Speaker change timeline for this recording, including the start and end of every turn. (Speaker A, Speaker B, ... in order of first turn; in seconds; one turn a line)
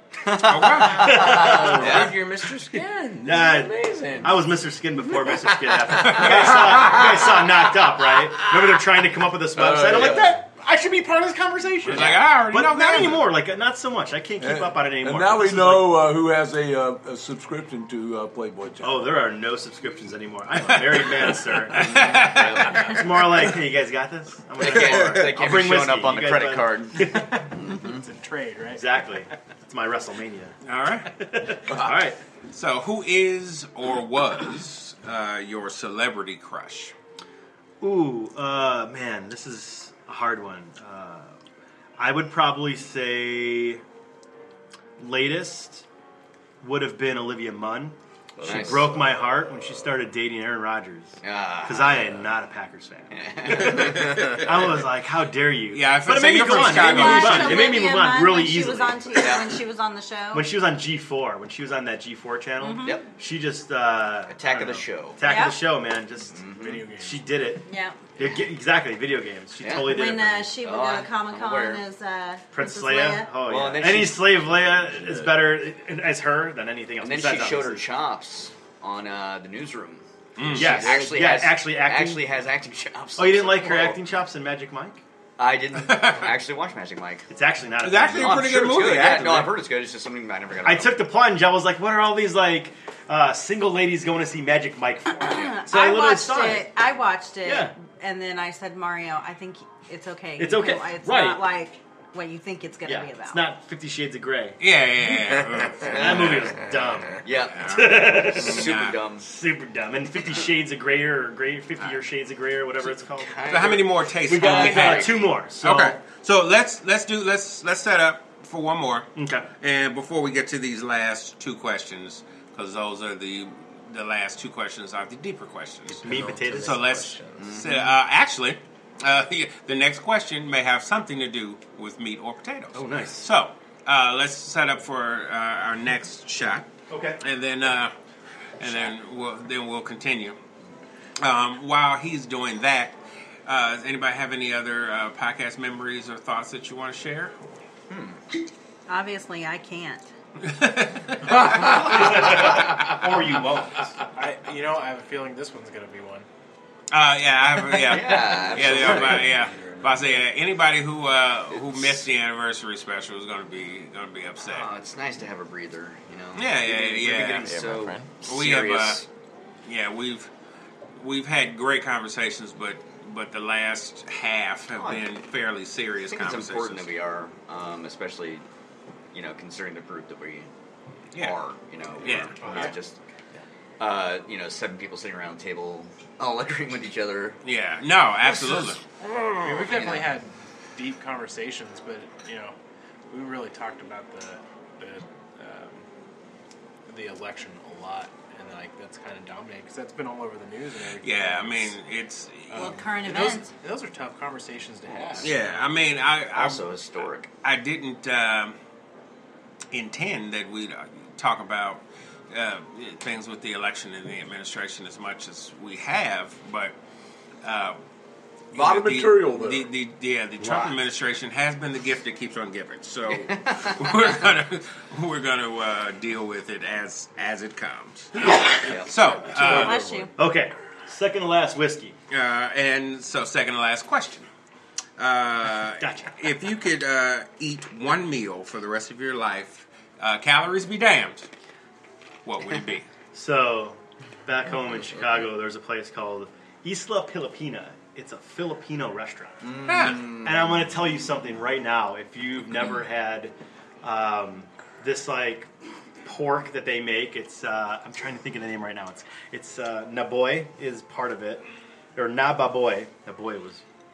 Speaker A: 0.3-2.1
Speaker B: 0.4-2.1
Speaker C: 0.8-2.1
Speaker D: 1.2-4.6
Speaker C: 3.2-15.9
Speaker D: 5.2-7.0
Speaker B: 6.0-6.8
Speaker D: 9.6-10.2
Speaker B: 11.8-13.3
Speaker A: 11.9-12.2
Speaker E: 14.4-19.1
Speaker C: 18.8-22.2
Speaker A: 21.7-23.1
Speaker B: 21.7-23.4
Speaker C: 22.8-27.5
Speaker A: 24.6-28.0
Speaker B: 24.8-25.2
Speaker F: 27.6-29.1
Speaker C: 28.7-30.6
Speaker B: 30.6-31.1
Speaker C: 31.1-32.2
Speaker E: 31.7-31.9
Speaker B: 32.5-36.9
Speaker C: 37.8-41.3
Speaker C: 42.0-43.8
Speaker C: 45.0-45.8
Speaker C: 46.6-59.2
Speaker D: 48.4-48.9
Speaker A: 48.4-49.0
Speaker A: 51.2-52.3
Speaker A: 53.1-54.4
Speaker B: 53.8-54.5
Speaker B: 55.7-57.8
Speaker G: 56.5-60.5
Speaker A: 59.1-59.5
Speaker C: 60.3-67.7
Speaker G: 62.6-63.0
Speaker A: 62.8-63.1
Speaker A: 64.3-65.2
Speaker G: 65.2-65.6
Speaker A: 66.3-66.9
Speaker F: 66.5-67.3
Speaker G: 67.6-68.0
Speaker C: 68.2-70.6
Speaker A: 69.6-71.8
Speaker G: 69.8-73.3
Speaker C: 72.5-77.8
Speaker A: 73.4-74.4
Speaker D: 75.0-75.3
Speaker A: 77.0-84.0
Speaker B: 80.4-80.9
Speaker C: 80.5-82.2
Speaker C: 83.2-85.0
Speaker A: 85.4-87.3
Speaker B: 85.7-86.3
Speaker C: 87.3-88.6
Speaker B: 87.8-89.5
Speaker A: 88.1-91.0
Speaker C: 90.6-96.7
Speaker G: 95.2-103.4
Speaker C: 97.4-97.7
Speaker C: 100.4-101.5
Speaker C: 102.8-104.6
Speaker B: 104.6-106.6
Speaker A: 105.8-106.6
Speaker C: 105.8-108.6
Speaker A: 107.1-109.2
Speaker B: 107.2-109.0
Speaker C: 109.2-113.5
Speaker A: 112.9-115.3
Speaker B: 113.5-137.9
Speaker C: 114.3-116.0
Speaker C: 119.2-119.5
Speaker D: 125.9-127.6
Speaker C: 126.0-127.0
Speaker A: 127.4-127.7
Speaker C: 132.7-133.3
Speaker C: 136.9-137.2
Speaker B: 138.6-140.4
Speaker B: 141.2-147.4
Speaker A: 147.9-148.2
Speaker G: 148.9-150.1
Speaker B: 150.4-152.7
Speaker C: 151.6-153.9
Speaker F: 154.1-156.3
Speaker B: 156.9-164.7
Speaker A: 157.7-159.3
Speaker D: 158.5-160.2
Speaker A: 161.5-162.0
Speaker A: 164.4-169.1
Speaker B: 166.3-167.5
Speaker D: 167.4-168.1
Speaker B: 168.2-169.1
Speaker B: 169.6-170.3
Speaker B: 170.9-176.9
Speaker A: 174.7-175.1
Speaker A: 176.1-178.4
Speaker A: 179.1-180.5
Speaker B: 181.1-181.4
Speaker A: 181.2-187.4
Speaker B: 182.0-182.7
Speaker F: 182.4-182.7
Speaker B: 187.4-188.8
Speaker A: 189.0-190.2
Speaker F: 189.4-192.5
Speaker F: 193.1-195.8
Speaker F: 196.9-201.8
Speaker B: 201.0-202.8
Speaker F: 202.5-205.7
Speaker G: 202.5-203.5
Speaker B: 205.2-206.6
Speaker A: 206.3-207.3
Speaker B: 207.4-208.6
Speaker B: 209.7-216.7
Speaker B: 217.4-217.8
Speaker B: 218.5-229.9
Speaker E: 218.5-219.7
Speaker C: 220.4-220.7
Speaker A: 223.1-223.7
Speaker A: 228.5-229.2
Speaker G: 229.3-230.1
Speaker C: 229.5-231.9
Speaker B: 232.1-234.3
Speaker B: 235.0-241.3
Speaker C: 235.8-236.1
Speaker B: 242.2-242.8
Speaker C: 243.1-249.5
Speaker A: 249.4-250.6
Speaker B: 249.7-250.1
Speaker C: 250.2-255.5
Speaker C: 256.0-263.6